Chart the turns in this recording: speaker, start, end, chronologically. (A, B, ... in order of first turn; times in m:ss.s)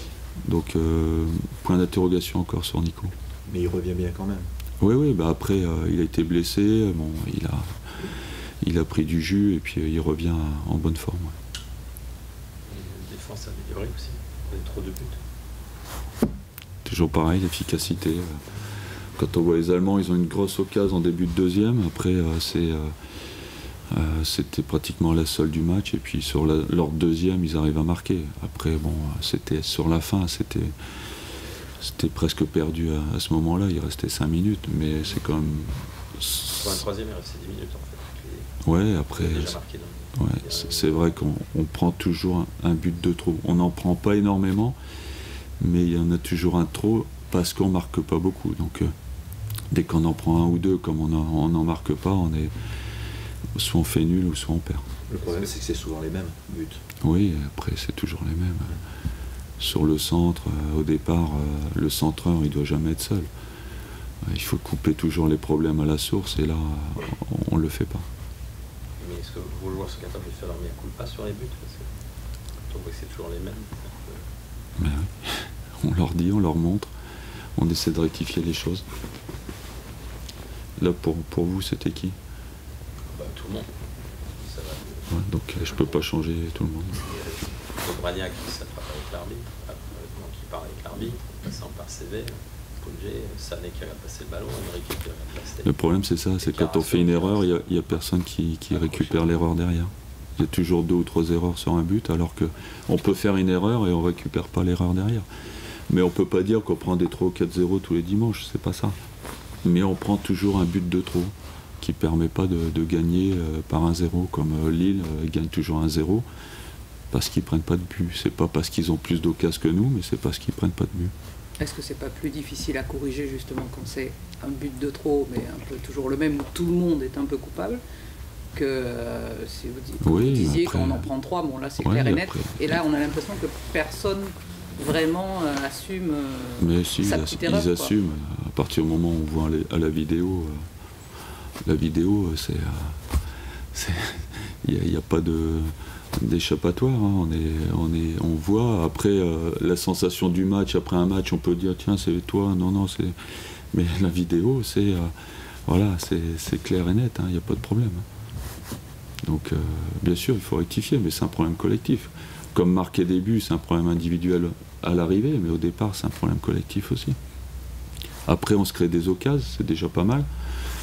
0:00.4-0:03.1 A
0:03.5-0:04.5 B
0:04.8-0:08.1 A
0:08.6-0:11.4 A
0:12.7-0:15.2 C
0:16.8-0:18.4 A
0:19.2-0:22.9 A
0:23.9-0:30.8 A
0:31.8-0:36.8 A
0:36.6-0:38.5 C
0:38.6-0:39.6 A
0:39.1-0:41.2 C
0:40.2-0:44.8 A
0:45.6-0:48.9 A
0:49.7-0:52.5 A
0:53.6-0:54.9 A
0:55.1-0:55.5 C
0:55.2-0:56.8 B
0:57.0-0:58.8 A
0:59.6-1:03.3 A
1:04.2-1:08.1 A
1:09.0-1:11.9 C
1:12.7-1:14.3 C
1:14.8-1:16.9 A
1:17.6-1:18.9 A
1:20.8-1:22.2 A
1:23.1-1:26.0 C
1:25.1-1:27.0 A
1:26.9-1:35.8 C
1:35.6-1:45.3 A
1:36.4-1:37.6 C
1:38.7-1:39.5 C
1:45.9-1:49.0 A
1:49.6-1:56.3 A
1:57.1-2:01.1 A
2:01.6-2:07.8 D
2:08.5-2:17.9 D
2:10.0-2:11.1 A
2:11.8-2:12.7 A
2:16.6-2:20.6 A
2:21.6-2:23.2 A
2:23.7-2:33.2 A
2:33.7-2:35.1 A
2:35.7-2:38.1 A
2:39.2-2:47.2 A
2:48.3-2:50.3 A